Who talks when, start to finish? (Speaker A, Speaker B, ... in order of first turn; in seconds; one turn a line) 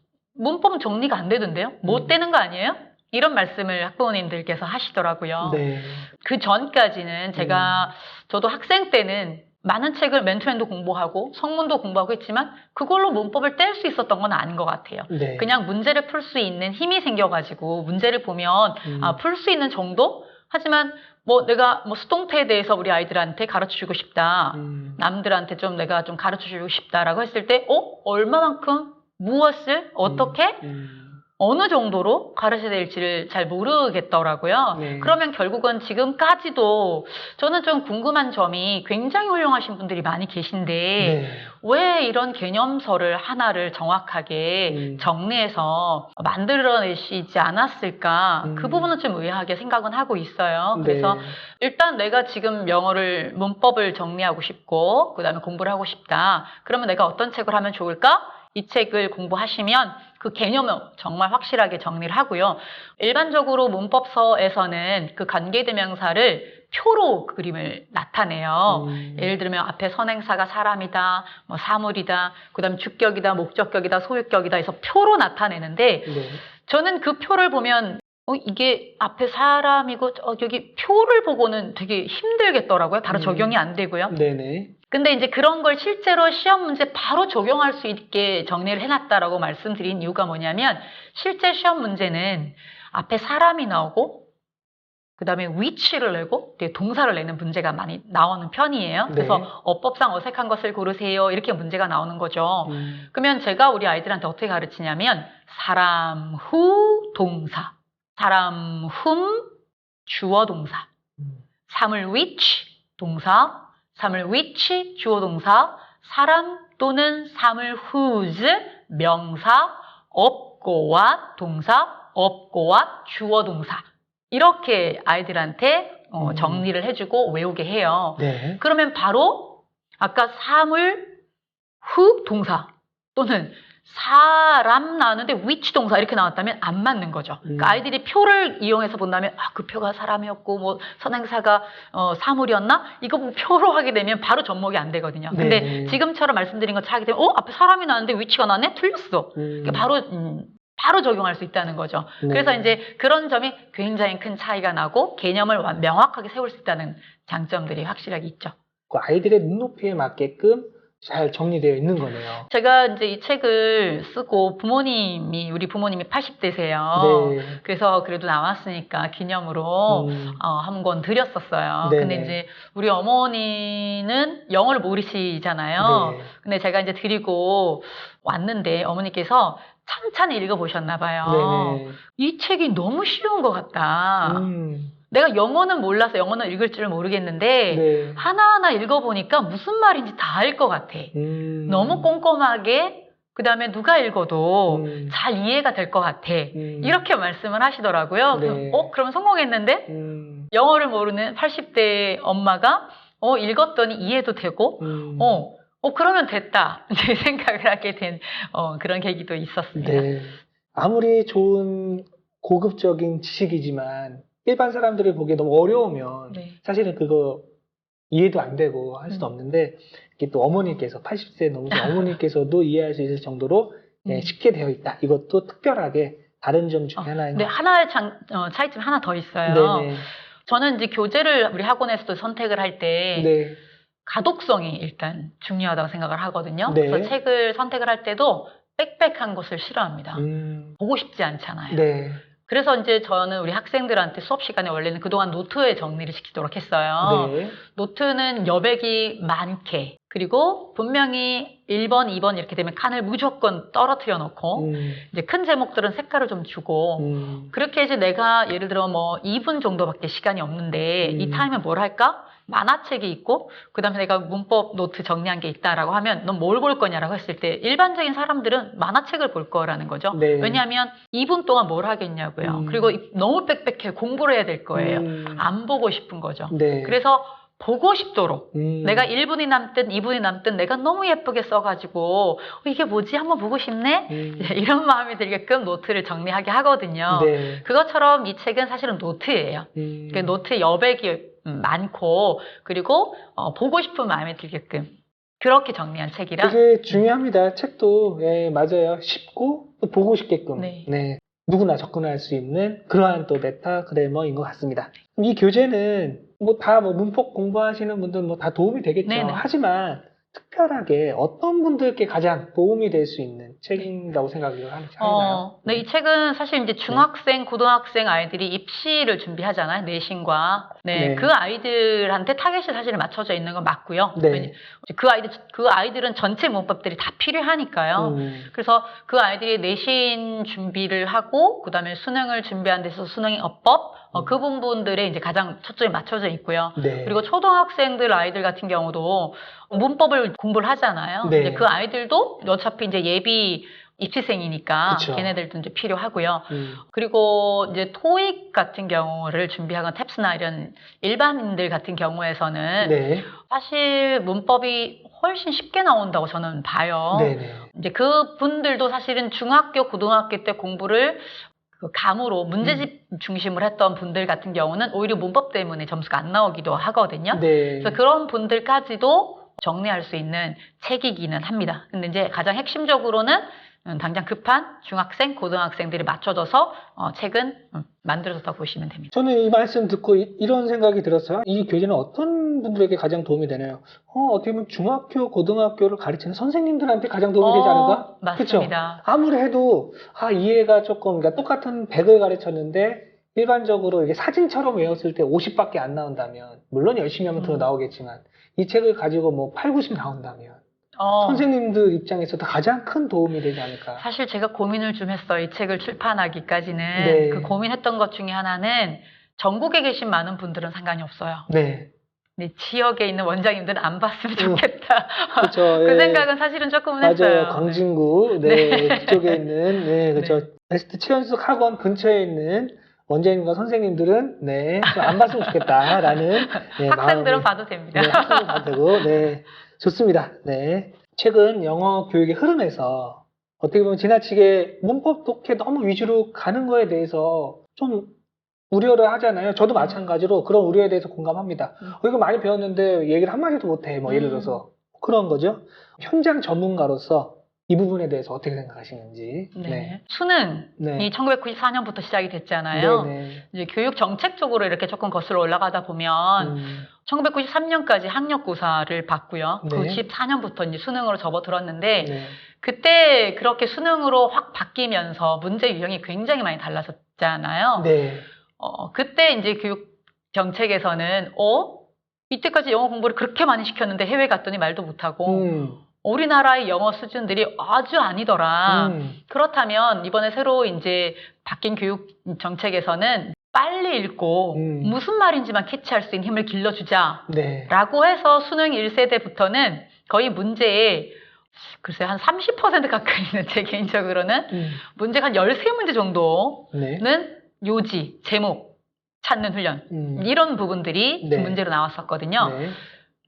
Speaker A: 0.4-5.7
Speaker B: 1.8-2.1
Speaker B: 5.4-6.1
Speaker A: 6.2-30.6
Speaker B: 7.4-7.9
Speaker B: 15.1-15.5
Speaker B: 18.9-19.2
Speaker B: 24.5-25.0
Speaker B: 30.1-31.2
Speaker A: 31.4-84.2
Speaker B: 34.7-35.2
Speaker B: 41.0-41.5
Speaker B: 44.7-45.1
Speaker B: 48.4-48.9
Speaker B: 50.7-51.4
Speaker B: 68.7-69.3
Speaker B: 76.1-76.4
Speaker B: 83.1-84.7
Speaker A: 84.9-94.3
Speaker A: 95.2-109.5
Speaker B: 99.1-99.5
Speaker B: 102.7-103.1
Speaker A: 110.1-110.9
Speaker B: 111.2-111.4
Speaker A: 111.7-131.2
Speaker B: 126.2-126.7
Speaker B: 128.2-128.6
Speaker A: 131.8-158.6
Speaker B: 137.4-137.8
Speaker B: 145.3-146.0
Speaker B: 149.4-149.9
Speaker B: 152.2-152.8
Speaker B: 158.9-162.5
Speaker A: 162.5-184.5
Speaker B: 166.9-167.6
Speaker B: 169.9-170.4
Speaker B: 171.8-172.4
Speaker B: 175.8-176.3
Speaker B: 181.2-182.0
Speaker B: 184.2-185.0
Speaker A: 185.1-191.1
Speaker B: 187.7-188.2
Speaker B: 191.1-192.1
Speaker A: 191.7-199.9
Speaker B: 194.7-195.2
Speaker B: 196.5-197.0
Speaker B: 198.3-198.9
Speaker B: 199.9-200.5
Speaker A: 200.5-210.1
Speaker B: 204.8-205.5
Speaker B: 209.8-217.5
Speaker A: 216.3-216.6
Speaker B: 218.1-227.5
Speaker A: 221.7-222.0
Speaker A: 224.1-224.3
Speaker A: 227.0-233.3
Speaker B: 229.5-230.1
Speaker B: 233.2-233.6
Speaker A: 234.1-240.2
Speaker B: 236.7-237.2
Speaker B: 240.2-240.8
Speaker A: 240.8-241.8
Speaker B: 241.7-242.2
Speaker A: 242.5-296.6
Speaker B: 247.0-247.6
Speaker B: 254.6-255.0
Speaker B: 257.0-257.5
Speaker B: 261.0-261.5
Speaker B: 270.1-270.6
Speaker B: 272.4-273.0
Speaker B: 274.7-275.5
Speaker B: 276.5-277.0
Speaker B: 278.5-279.1
Speaker B: 284.1-284.6
Speaker B: 287.1-287.7
Speaker B: 289.8-290.4
Speaker B: 296.4-315.9
Speaker A: 300.6-300.9
Speaker A: 309.1-309.4
Speaker A: 315.0-379.1
Speaker B: 320.9-321.3
Speaker B: 324.1-324.5
Speaker B: 328.0-328.5
Speaker B: 336.8-337.2
Speaker B: 341.2-341.7
Speaker B: 344.9-345.3
Speaker B: 346.5-346.8
Speaker B: 352.8-353.3
Speaker B: 357.1-357.7
Speaker B: 367.3-368.0
Speaker B: 379.1-400.6
Speaker A: 387.4-389.0
Speaker A: 397.4-397.7
Speaker A: 401.0-401.5
Speaker B: 401.2-404.1
Speaker A: 404.0-411.5
Speaker B: 407.0-407.6
Speaker B: 411.5-411.9
Speaker A: 412.4-417.8
Speaker B: 414.4-414.7
Speaker B: 415.4-416.3
Speaker B: 417.0-438.1
Speaker A: 418.4-419.5
Speaker A: 420.1-420.5
Speaker A: 424.9-429.2
Speaker B: 438.7-450.0
Speaker A: 444.1-444.6
Speaker A: 449.6-467.9
Speaker B: 450.8-451.1
Speaker B: 452.7-453.4
Speaker B: 456.4-456.9
Speaker B: 459.6-460.0
Speaker B: 462.0-462.4
Speaker B: 467.8-468.3
Speaker A: 468.6-475.5
Speaker B: 475.3-475.8
Speaker A: 476.0-491.2
Speaker B: 478.7-479.2
Speaker B: 484.5-485.0
Speaker B: 487.3-487.7
Speaker A: 491.7-502.6
Speaker B: 494.5-494.8
Speaker B: 496.7-497.0
Speaker B: 499.9-500.3
Speaker B: 501.2-501.6
Speaker B: 502.4-502.8